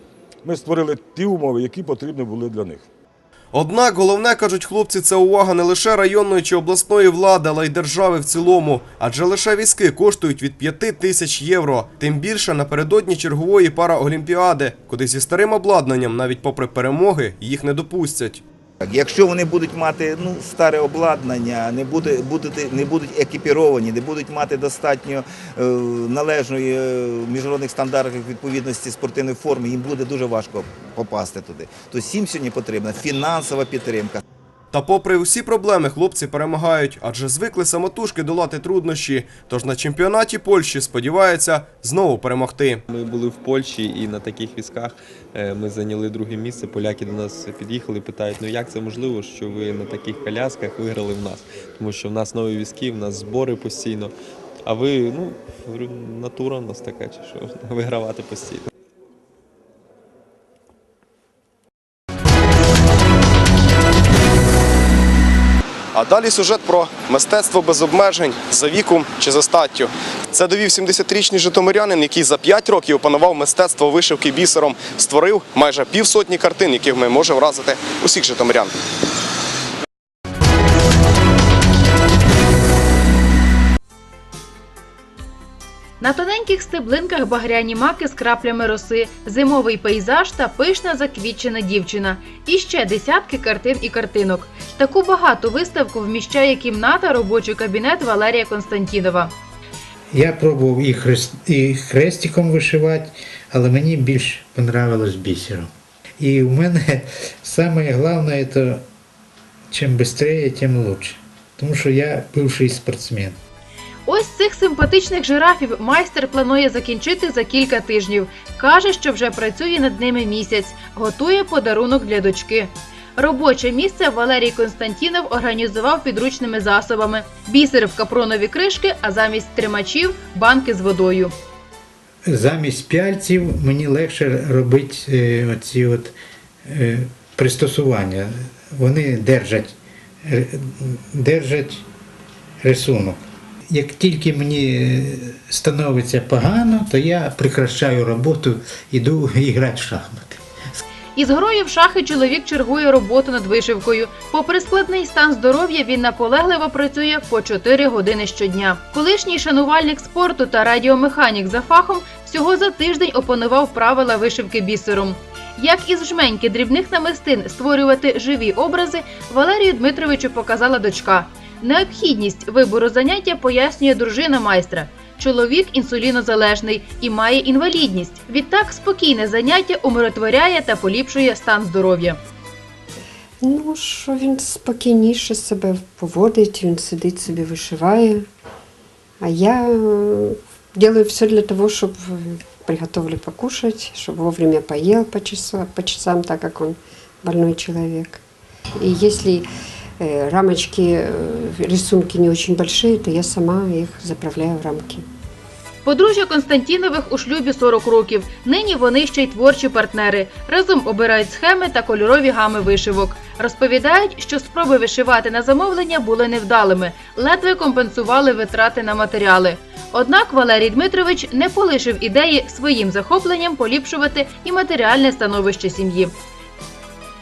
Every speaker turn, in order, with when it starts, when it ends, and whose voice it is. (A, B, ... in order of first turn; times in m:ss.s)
0:00.4-0:02.9 A
0:03.5-0:18.4 B
0:18.8-0:34.2 C
0:34.7-0:42.8 B
0:42.9-0:54.1 D
0:54.6-0:58.7 D
1:05.9-1:18.7 B
1:26.0-1:39.3 E
1:40.1-1:45.7 F
1:46.2-1:48.8 F
1:49.7-1:53.4 F
1:54.1-2:11.3 E
2:12.3-2:16.2 F
2:16.7-2:19.7 F
2:20.2-2:21.8 F
2:22.6-2:30.4 F
2:31.2-3:02.2 E
3:03.4-3:08.2 G
3:09.2-3:18.2 G
3:18.8-3:19.5 G
3:20.0-3:25.0 G
3:25.8-3:46.1 E